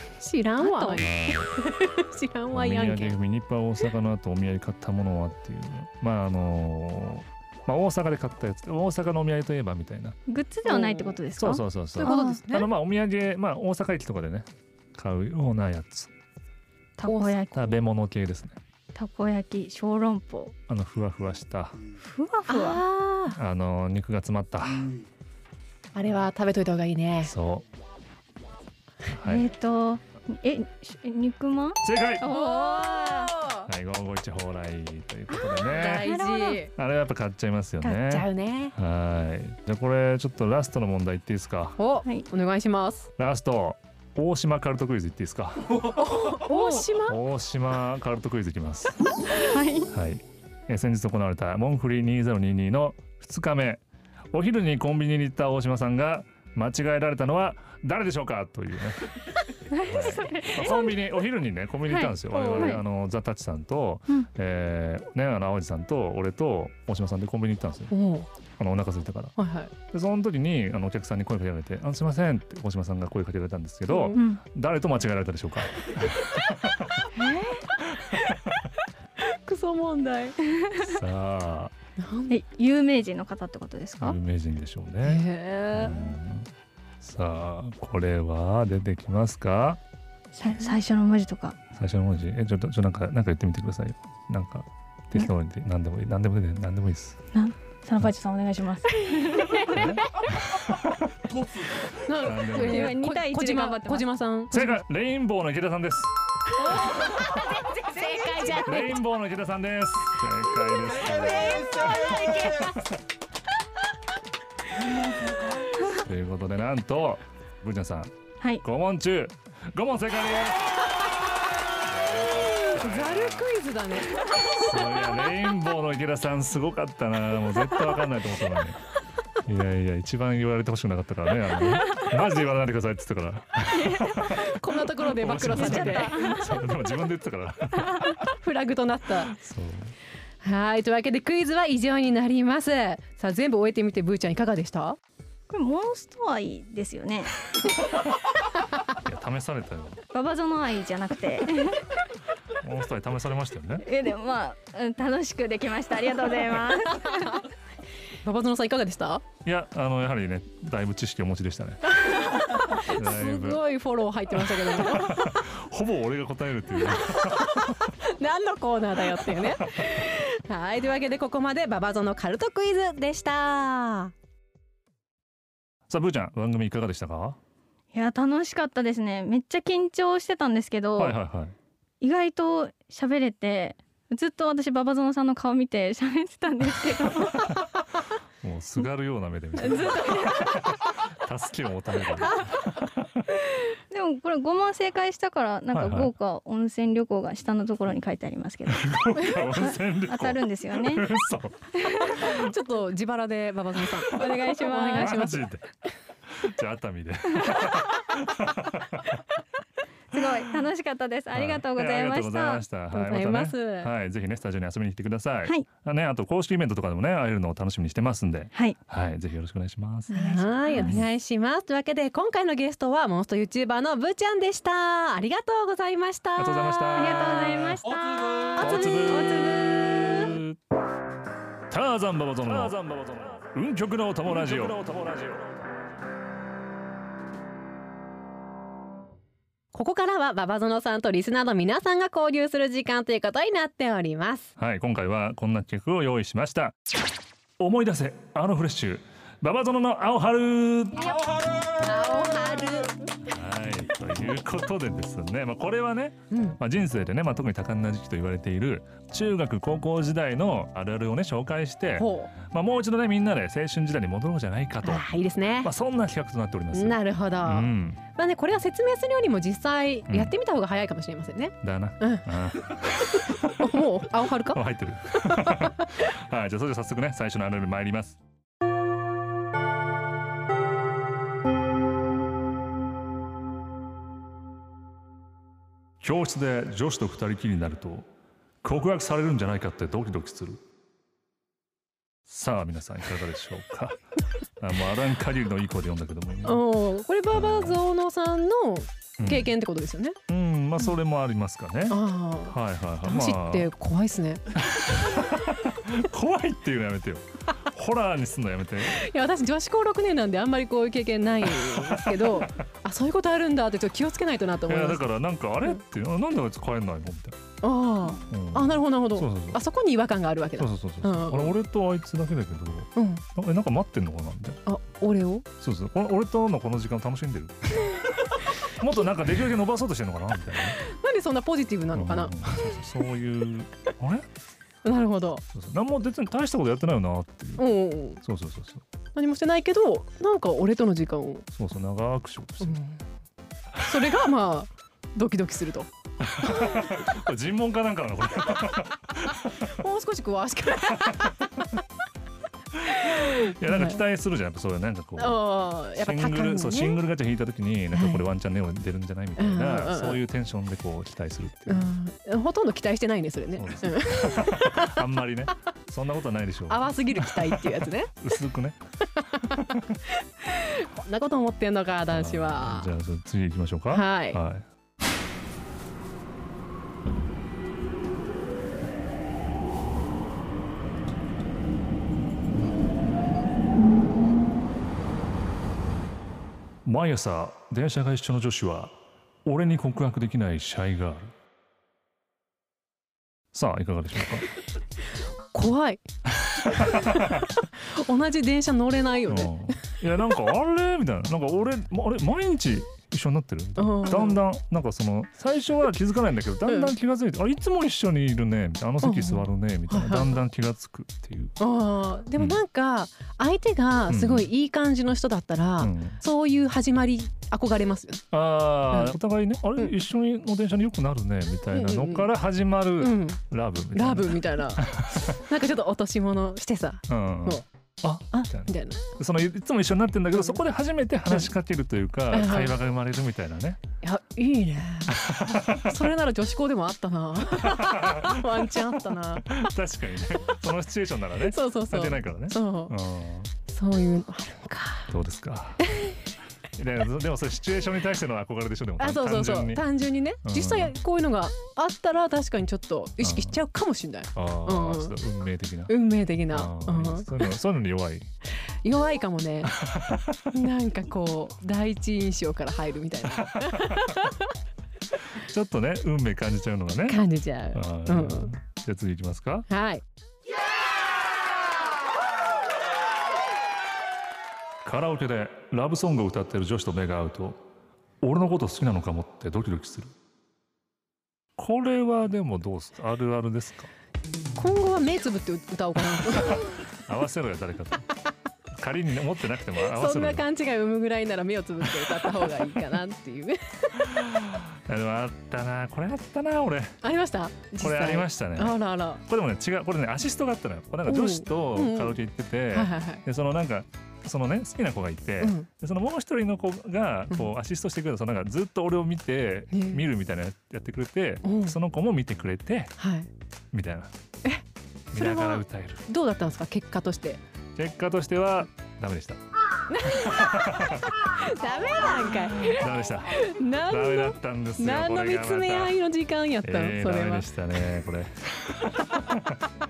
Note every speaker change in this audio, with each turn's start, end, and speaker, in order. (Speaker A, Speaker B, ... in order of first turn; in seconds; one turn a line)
Speaker A: 0.2-3.2
Speaker B: 0.6-1.1
Speaker C: 1.0-1.5
Speaker C: 2.5-10.2
Speaker B: 10.3-12.4
Speaker A: 10.7-11.2
Speaker C: 11.4-16.1
Speaker A: 11.9-12.7
Speaker B: 17.0-17.8
Speaker A: 17.0-17.4
Speaker C: 17.5-18.6
Speaker B: 18.9-20.5
Speaker C: 20.7-21.8
Speaker B: 22.0-22.8
Speaker A: 22.5-23.4
Speaker C: 23.3-24.9
Speaker A: 25.9-27.3
Speaker C: 27.2-27.6
Speaker C: 29.1-29.4
Speaker B: 29.2-33.4
Speaker C: 31.8-32.2
Speaker A: 32.3-33.7
Speaker C: 33.6-36.1
Speaker B: 35.3-36.6
Speaker A: 35.6-36.7
Speaker C: 36.7-41.8
Speaker A: 37.8-38.7
Speaker A: 41.8-43.1
Speaker C: 43.2-46.0
Speaker A: 45.9-47.2
Speaker B: 46.4-47.0
Speaker C: 47.0-49.0
Speaker B: 49.3-49.9
Speaker C: 49.9-53.8
Speaker C: 54.3-59.1
Speaker B: 59.7-61.0
Speaker C: 59.8-67.9
Speaker B: 61.9-62.8
Speaker A: 62.3-62.8
Speaker A: 67.9-68.3
Speaker C: 68.6-69.3
Speaker A: 69.4-69.7
Speaker C: 69.9-77.0
Speaker A: 73.9-74.2
Speaker B: 74.1-74.4
Speaker B: 77.1-77.7
Speaker A: 77.5-78.4
Speaker A: 79.2-80.4
Speaker C: 80.8-81.7
Speaker A: 82.0-82.3
Speaker B: 82.3-84.2
Speaker C: 84.0-86.5
Speaker A: 85.0-86.2
Speaker C: 87.0-89.8
Speaker B: 90.3-91.6
Speaker C: 91.7-97.2
Speaker B: 97.3-100.0
Speaker C: 99.7-101.4
Speaker A: 101.9-104.7
Speaker C: 102.2-103.0
Speaker B: 102.5-104.0
Speaker C: 104.5-106.1
Speaker A: 106.6-108.9
Speaker B: 106.6-109.0
Speaker C: 108.6-112.8
Speaker A: 111.1-112.8
Speaker C: 115.8-120.8
Speaker C: 121.8-123.5
Speaker A: 122.3-124.4
Speaker C: 124.3-128.8
Speaker C: 129.4-138.2
Speaker B: 133.7-134.3
Speaker A: 134.2-136.3
Speaker B: 135.5-136.6
Speaker B: 137.8-138.2
Speaker A: 138.2-139.3
Speaker C: 139.2-139.9
Speaker A: 140.4-144.9
Speaker B: 145.5-147.4
Speaker C: 149.0-150.0
Speaker B: 150.1-151.9
Speaker C: 152.6-153.8
Speaker B: 153.8-157.4
Speaker A: 158.2-159.2
Speaker C: 159.4-162.0
Speaker A: 161.9-165.4
Speaker C: 162.7-163.7
Speaker C: 164.3-167.9
Speaker A: 167.0-174.1
Speaker C: 169.4-170.1
Speaker C: 175.9-177.4
Speaker B: 177.9-181.2
Speaker C: 181.0-181.5
Speaker B: 182.0-187.6
Speaker C: 188.4-193.4
Speaker B: 189.7-190.6
Speaker A: 189.7-190.3
Speaker B: 193.6-201.1
Speaker C: 195.7-196.1
Speaker C: 198.7-202.5
Speaker B: 201.8-202.3
Speaker A: 202.1-205.5
Speaker C: 203.9-204.3
Speaker B: 204.1-205.2
Speaker C: 204.9-205.7
Speaker C: 206.3-209.2
Speaker B: 210.1-212.6
Speaker C: 211.3-221.1
Speaker A: 212.9-213.9
Speaker B: 220.1-221.0
Speaker A: 220.1-230.4
Speaker C: 226.4-227.7
Speaker B: 226.9-229.9
Speaker C: 228.6-230.6
Speaker C: 231.7-235.6
Speaker A: 239.7-244.5
Speaker C: 244.6-246.7
Speaker C: 247.6-251.2
Speaker A: 251.0-253.1
Speaker C: 253.2-265.1
Speaker A: 256.3-256.6
Speaker A: 262.0-262.3
Speaker A: 264.8-265.7
Speaker C: 265.6-268.0
Speaker A: 266.7-272.3
Speaker C: 270.1-270.3
Speaker C: 271.6-273.7
Speaker A: 273.4-274.6
Speaker C: 274.5-278.2
Speaker C: 286.0-288.1
Speaker C: 288.6-290.6
Speaker C: 292.3-294.0
Speaker C: 294.6-296.6
Speaker A: 296.4-300.2
Speaker C: 297.3-297.8
Speaker C: 299.2-299.5
Speaker C: 300.3-303.7
Speaker A: 301.9-304.5
Speaker C: 304.6-309.0
Speaker A: 308.9-315.0
Speaker C: 311.4-312.5
Speaker C: 314.6-317.4
Speaker A: 317.6-321.6
Speaker C: 318.3-319.6
Speaker C: 320.6-324.6
Speaker A: 322.9-323.2
Speaker A: 324.6-325.5
Speaker C: 325.6-330.8
Speaker A: 330.8-332.8
Speaker C: 331.9-334.3
Speaker A: 334.8-335.4
Speaker C: 335.5-337.7
Speaker A: 337.6-338.2
Speaker C: 338.2-338.8
Speaker A: 339.1-341.5
Speaker C: 341.5-342.8
Speaker A: 342.6-343.0
Speaker C: 343.7-344.1
Speaker A: 343.8-345.9
Speaker C: 346.2-349.8
Speaker A: 349.6-351.8
Speaker C: 350.9-351.6
Speaker C: 352.7-355.4
Speaker A: 352.9-354.0
Speaker A: 355.2-357.0
Speaker C: 355.9-361.9
Speaker A: 357.9-358.2
Speaker A: 359.4-360.2
Speaker A: 361.7-365.1
Speaker C: 363.5-368.8
Speaker A: 366.7-368.1
Speaker A: 369.2-372.9
Speaker C: 369.4-370.0
Speaker C: 372.1-374.6
Speaker A: 373.9-374.4
Speaker C: 386.8-391.3
Speaker C: 393.5-394.5
Speaker A: 395.5-396.0
Speaker C: 396.4-397.5
Speaker A: 396.6-399.8
Speaker C: 399.3-411.5
Speaker A: 403.8-404.4
Speaker A: 406.6-406.9
Speaker A: 409.0-410.4
Speaker A: 411.6-418.2
Speaker C: 412.4-412.6
Speaker C: 414.1-414.5
Speaker C: 415.8-416.2
Speaker C: 418.3-425.4
Speaker A: 418.9-419.1
Speaker A: 421.7-422.3
Speaker A: 423.0-423.4
Speaker A: 423.9-427.6
Speaker C: 427.1-433.8
Speaker A: 428.3-429.0
Speaker A: 432.3-432.8
Speaker A: 434.0-439.7
Speaker C: 435.1-436.1
Speaker C: 437.5-443.5
Speaker A: 441.5-442.9
Speaker A: 443.7-445.1
Speaker C: 445.1-445.9
Speaker A: 445.8-446.2
Speaker C: 446.8-449.8
Speaker A: 449.0-455.1
Speaker C: 450.4-450.9
Speaker C: 453.2-453.6
Speaker C: 454.4-455.9
Speaker A: 455.9-457.5
Speaker C: 456.5-458.3
Speaker A: 458.8-459.7
Speaker C: 459.6-460.5
Speaker A: 460.5-464.5
Speaker C: 463.3-464.3
Speaker C: 465.3-469.7
Speaker A: 467.1-468.5
Speaker A: 469.7-470.0
Speaker C: 474.8-477.6
Speaker C: 478.2-480.1
Speaker C: 481.6-483.9
Speaker A: 484.6-486.8
Speaker C: 486.4-488.1
Speaker C: 488.7-490.4
Speaker A: 489.8-494.2
Speaker C: 491.8-492.7
Speaker C: 494.0-497.0
Speaker A: 497.0-499.2
Speaker C: 497.8-512.9
Speaker A: 501.1-502.2
Speaker A: 502.7-503.2
Speaker A: 505.4-505.7
Speaker A: 509.7-510.0
Speaker A: 511.4-511.8
Speaker A: 513.0-513.3
Speaker C: 513.7-514.1
Speaker A: 514.4-517.4
Speaker C: 515.1-516.0
Speaker C: 517.7-519.4
Speaker A: 519.9-520.7
Speaker C: 520.0-521.5
Speaker A: 521.2-527.5
Speaker C: 522.5-526.0
Speaker C: 526.6-529.7